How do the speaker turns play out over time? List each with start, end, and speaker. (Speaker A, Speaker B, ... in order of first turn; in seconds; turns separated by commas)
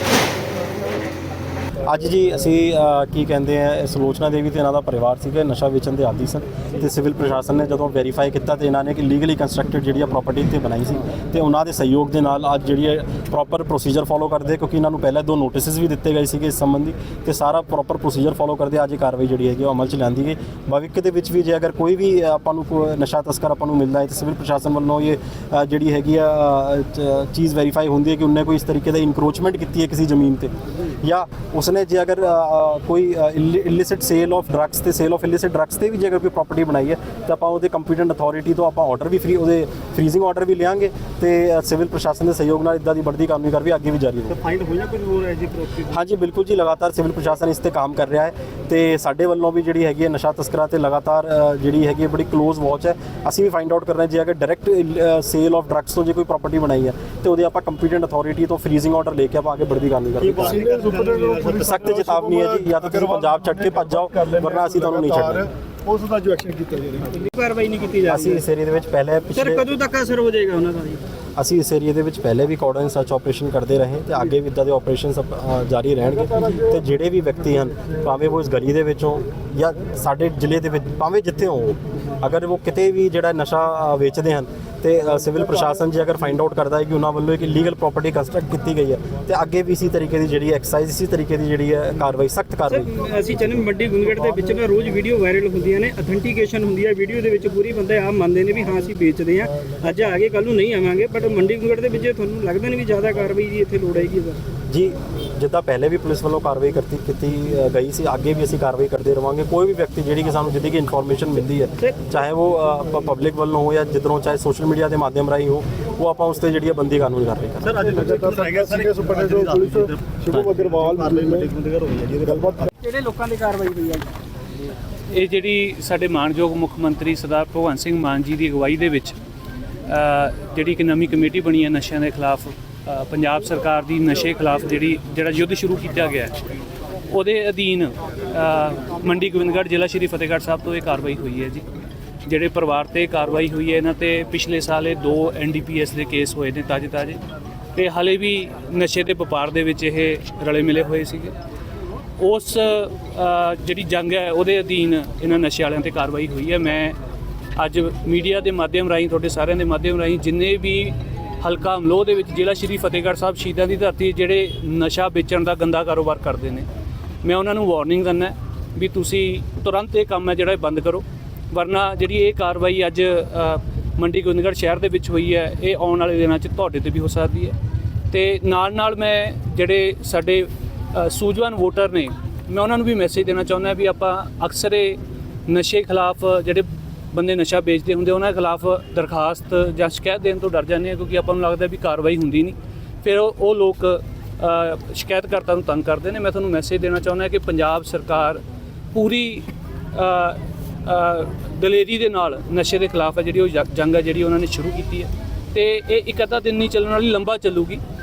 Speaker A: 1.9-44.4, Speaker B: 44.3-46.0, Speaker A: 45.9-60.6, Speaker B: 60.2-67.1, Speaker C: 60.5-61.4, Speaker A: 61.5-65.5, Speaker C: 67.1-68.4, Speaker A: 68.1-69.6, Speaker C: 69.3-71.0, Speaker A: 71.4-92.9, Speaker C: 92.7-104.4, Speaker A: 104.7-117.8, Speaker B: 117.6-122.7, Speaker C: 118.1-119.9, Speaker C: 120.8-121.5, Speaker C: 122.8-124.1, Speaker D: 125.1-129.2, Speaker D: 129.9-136.4, Speaker D: 137.1-141.6, Speaker D: 142.2-147.2, Speaker D: 147.7-151.3, Speaker D: 152.2-157.0, Speaker D: 157.6-166.7, Speaker D: 167.2-177.6, Speaker D: 178.1-198.4, Speaker D: 198.9-207.8